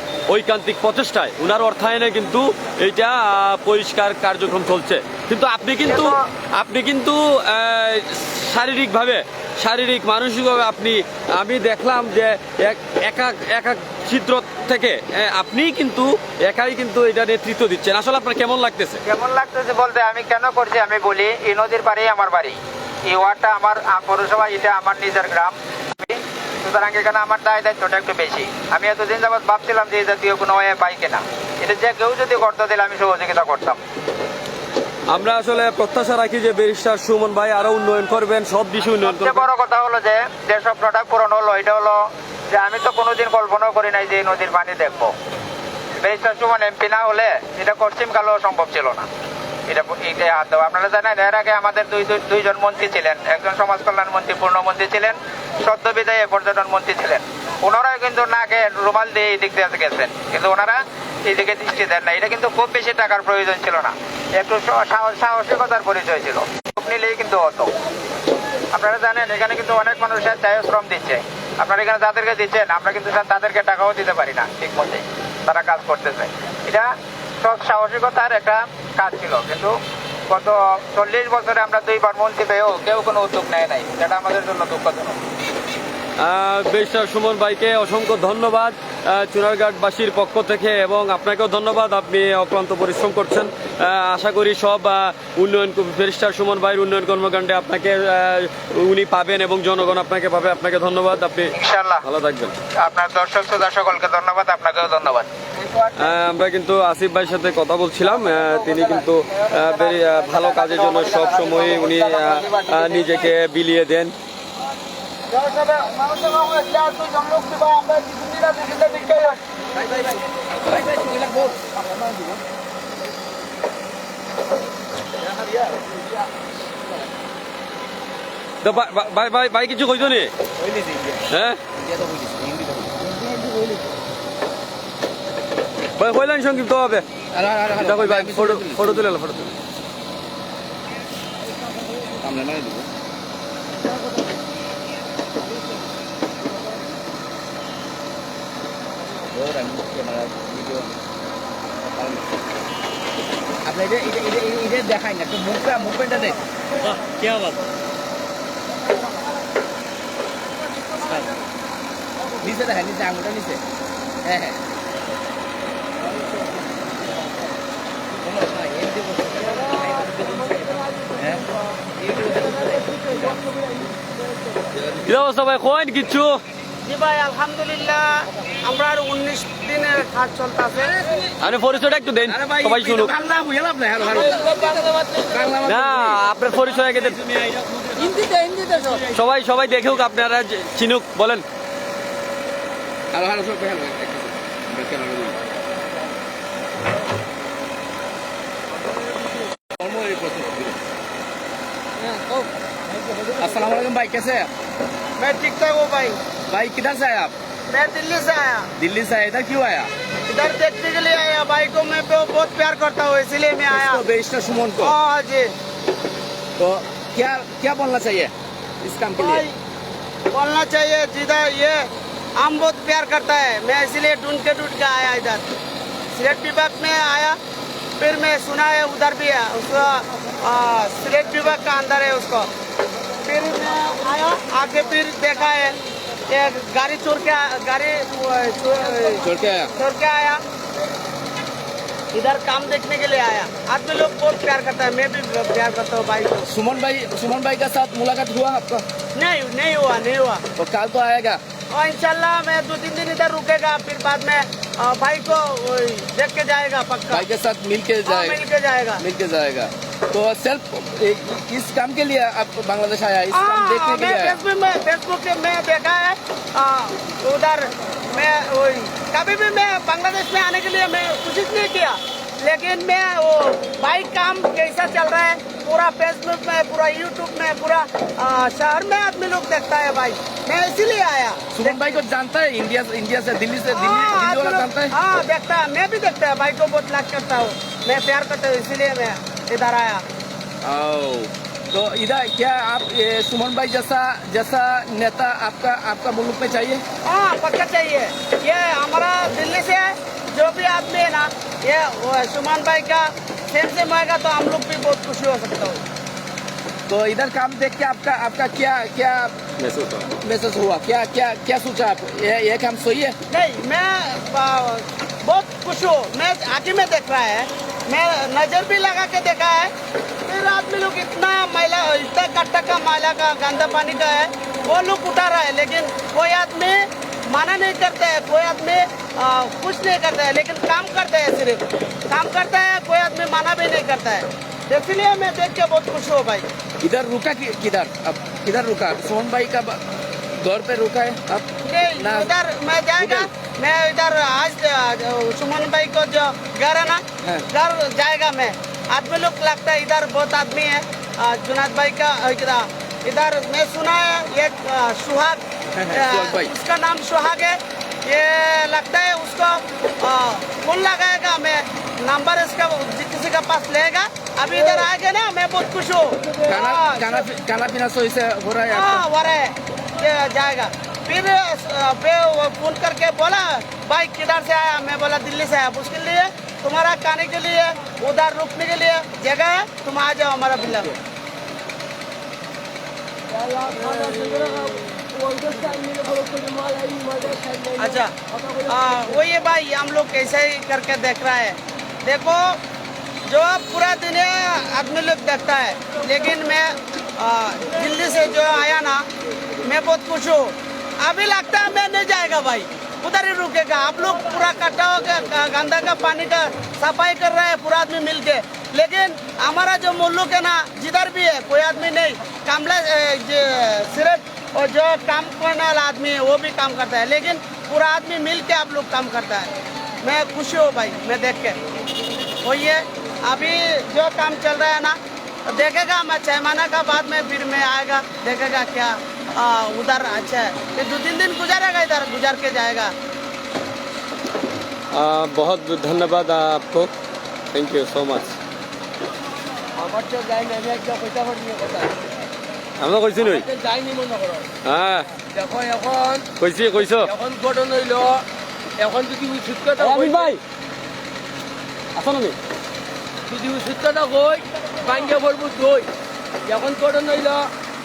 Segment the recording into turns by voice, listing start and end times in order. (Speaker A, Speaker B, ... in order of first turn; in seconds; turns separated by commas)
Speaker A: 0.3-19.0, Speaker B: 5.9-6.2, Speaker B: 19.1-33.8, Speaker A: 35.1-39.5, Speaker B: 39.0-45.1, Speaker B: 46.0-49.1, Speaker B: 49.7-67.7, Speaker B: 68.7-79.8, Speaker B: 80.3-85.2, Speaker A: 86.2-102.6, Speaker B: 101.5-102.0, Speaker B: 102.8-105.3, Speaker A: 105.9-114.1, Speaker B: 109.9-113.1, Speaker C: 115.3-119.4, Speaker D: 119.7-122.4, Speaker D: 125.2-126.0, Speaker A: 128.6-130.3, Speaker D: 130.6-131.2, Speaker A: 131.3-131.6, Speaker D: 131.8-133.8, Speaker A: 136.0-137.1, Speaker D: 137.3-139.0, Speaker A: 137.8-139.6, Speaker D: 142.2-142.9, Speaker D: 149.3-150.9, Speaker D: 151.7-152.4, Speaker D: 153.6-156.4, Speaker A: 157.0-157.6, Speaker D: 161.0-161.3, Speaker D: 162.4-163.6, Speaker D: 164.2-164.6, Speaker D: 168.2-171.4, Speaker E: 169.4-171.6, Speaker D: 171.9-173.4, Speaker E: 172.6-174.6, Speaker D: 174.7-175.2, Speaker A: 175.0-176.4, Speaker C: 176.8-181.1, Speaker A: 181.4-183.1, Speaker D: 182.2-186.2, Speaker E: 184.0-185.6, Speaker A: 185.6-188.0, Speaker E: 188.1-189.0, Speaker D: 188.7-189.0, Speaker A: 188.8-191.4, Speaker D: 193.1-195.4, Speaker D: 199.7-200.8, Speaker E: 202.0-202.4, Speaker E: 203.1-203.4, Speaker D: 203.3-204.5, Speaker C: 205.2-206.2, Speaker D: 206.5-207.3, Speaker C: 207.7-208.7, Speaker D: 208.8-209.9, Speaker C: 210.3-214.0, Speaker D: 213.7-214.9, Speaker C: 214.8-215.5, Speaker D: 216.6-219.4, Speaker C: 219.2-219.6, Speaker C: 220.3-225.4, Speaker C: 226.1-227.4, Speaker C: 228.0-232.5, Speaker C: 233.2-235.8, Speaker C: 236.3-240.4, Speaker D: 239.2-239.7, Speaker C: 242.1-246.5, Speaker D: 246.5-248.8, Speaker C: 249.1-250.4, Speaker D: 250.6-251.4, Speaker C: 251.7-257.2, Speaker D: 257.1-258.4, Speaker C: 258.0-259.0, Speaker D: 259.0-264.4, Speaker C: 263.3-281.8, Speaker D: 281.5-284.9, Speaker C: 283.7-290.0, Speaker D: 290.6-296.8, Speaker C: 297.0-305.8, Speaker D: 306.9-309.4, Speaker A: 309.6-310.1, Speaker D: 310.1-313.1, Speaker C: 313.3-319.7, Speaker C: 320.2-336.4, Speaker D: 336.8-341.4, Speaker C: 341.6-367.3, Speaker D: 342.0-342.3, Speaker D: 343.0-343.3, Speaker D: 347.2-347.5, Speaker D: 355.7-356.5, Speaker E: 364.5-364.9, Speaker E: 366.2-366.5, Speaker D: 366.4-369.1, Speaker C: 368.7-380.9, Speaker E: 383.3-389.2, Speaker C: 387.8-388.1, Speaker C: 388.7-392.6, Speaker C: 393.3-399.0, Speaker C: 399.6-419.5, Speaker C: 420.0-421.6, Speaker C: 422.4-425.0, Speaker C: 425.5-432.9, Speaker A: 434.9-436.9, Speaker A: 437.5-438.4, Speaker E: 439.8-442.0, Speaker A: 442.8-443.4, Speaker E: 443.2-444.5, Speaker A: 444.6-445.1, Speaker E: 445.3-448.2, Speaker A: 446.4-447.1, Speaker E: 448.8-450.3, Speaker A: 449.8-450.4, Speaker A: 451.9-452.4, Speaker E: 453.3-455.9, Speaker E: 456.5-457.5